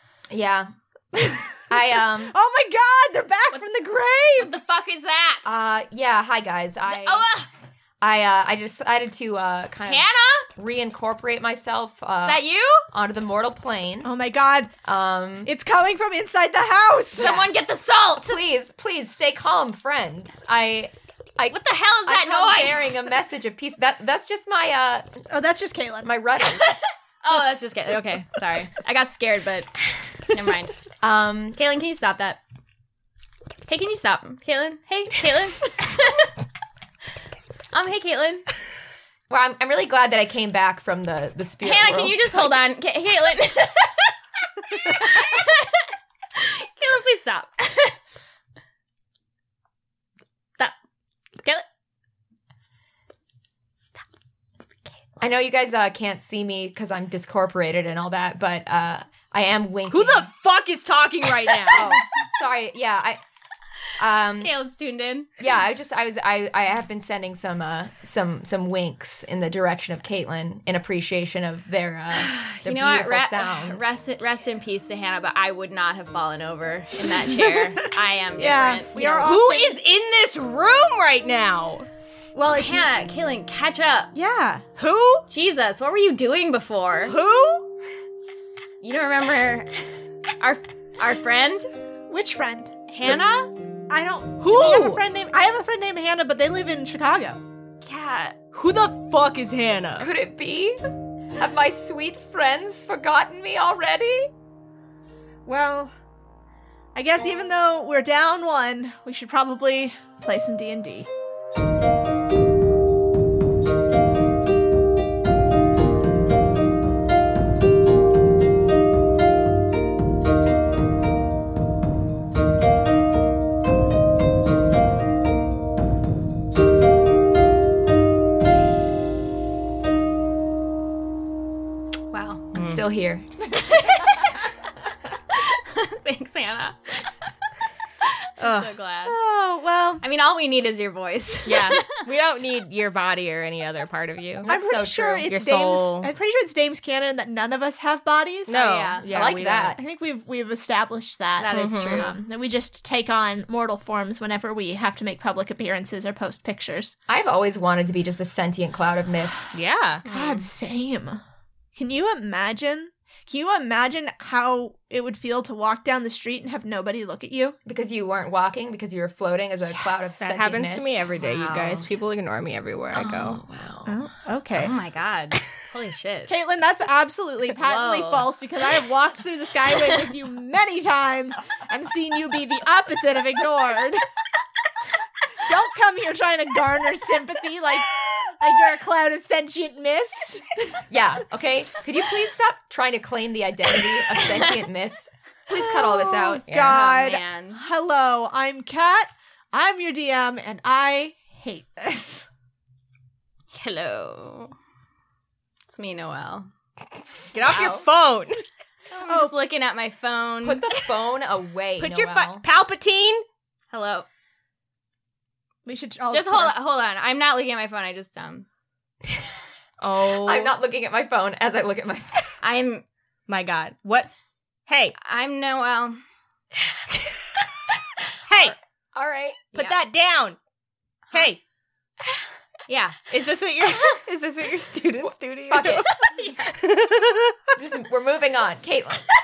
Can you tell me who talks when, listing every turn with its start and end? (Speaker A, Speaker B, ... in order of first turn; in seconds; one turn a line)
Speaker A: 0.3-0.7
Speaker B: 1.1-4.5
Speaker A: 1.7-2.3
Speaker C: 4.3-5.5
Speaker A: 5.5-7.3
Speaker C: 6.8-7.5
Speaker A: 8.0-14.1
Speaker C: 9.9-10.5
Speaker C: 12.2-12.9
Speaker B: 14.0-14.7
Speaker A: 14.8-15.5
Speaker B: 15.4-17.4
Speaker A: 17.2-17.7
Speaker C: 17.2-18.4
Speaker A: 18.2-25.2
Speaker C: 21.5-23.1
Speaker B: 25.3-26.1
Speaker A: 26.0-26.8
Speaker C: 26.4-30.9
Speaker A: 31.0-31.6
Speaker C: 31.5-32.4
Speaker C: 33.7-36.3
Speaker C: 37.7-38.5
Speaker A: 39.3-42.7
Speaker C: 41.6-44.1
Speaker C: 44.7-48.0
Speaker A: 55.2-60.3
Speaker D: 59.9-62.0
Speaker A: 61.7-63.2
Speaker A: 64.0-64.5
Speaker C: 64.4-65.3
Speaker A: 65.4-74.0
Speaker C: 72.1-79.4
Speaker B: 77.0-79.8
Speaker D: 79.2-81.9
Speaker B: 82.4-82.7
Speaker C: 82.4-84.1
Speaker B: 84.1-84.7
Speaker D: 84.8-85.3
Speaker C: 85.3-87.2
Speaker D: 87.1-87.7
Speaker C: 88.8-89.8
Speaker C: 90.4-91.7
Speaker B: 92.1-92.7
Speaker C: 92.9-93.5
Speaker B: 93.9-97.4
Speaker D: 94.4-95.0
Speaker C: 97.8-98.4
Speaker D: 98.5-100.1
Speaker A: 100.0-100.8
Speaker A: 101.3-104.3
Speaker B: 105.5-105.9
Speaker B: 107.0-111.1
Speaker C: 132.1-132.5
Speaker D: 132.5-132.8
Speaker A: 132.5-133.3
Speaker C: 133.5-134.5
Speaker C: 135.3-137.3
Speaker C: 138.0-139.2
Speaker D: 138.4-138.7
Speaker B: 139.1-140.0
Speaker C: 140.0-142.0
Speaker D: 141.4-144.5
Speaker A: 144.4-145.3
Speaker B: 144.5-148.6
Speaker D: 145.3-146.1
Speaker D: 148.5-149.8
Speaker C: 148.5-149.1
Speaker A: 149.1-149.8
Speaker B: 149.8-157.0
Speaker C: 151.4-152.2
Speaker D: 151.5-152.1
Speaker A: 157.1-159.5
Speaker D: 159.5-160.0
Speaker C: 160.1-160.5
Speaker B: 160.1-161.2
Speaker B: 161.8-167.6
Speaker A: 167.7-171.8
Speaker D: 170.1-173.4
Speaker C: 171.2-171.9
Speaker C: 172.9-173.9
Speaker B: 173.9-174.7
Speaker C: 174.6-176.3
Speaker B: 176.3-184.1
Speaker C: 177.6-178.3
Speaker C: 179.7-180.0
Speaker B: 185.4-190.7
Speaker A: 190.9-196.5
Speaker B: 195.9-202.3
Speaker D: 196.5-196.8
Speaker C: 196.5-197.6
Speaker C: 203.5-204.5
Speaker C: 205.7-206.5
Speaker D: 207.3-208.4
Speaker C: 207.5-207.8
Speaker C: 208.9-210.7
Speaker A: 210.4-212.4
Speaker D: 211.8-213.2
Speaker C: 213.7-214.1
Speaker B: 215.7-216.6
Speaker C: 216.1-218.5
Speaker D: 219.8-220.6
Speaker A: 220.2-222.3
Speaker C: 222.4-222.8
Speaker D: 223.3-224.1
Speaker D: 224.7-225.0
Speaker C: 225.0-226.0
Speaker D: 228.3-228.6
Speaker A: 228.9-229.5
Speaker D: 229.5-230.4
Speaker D: 231.1-231.4
Speaker C: 232.7-233.1
Speaker D: 233.1-237.4
Speaker A: 235.5-236.1
Speaker C: 235.7-236.4
Speaker A: 237.6-239.1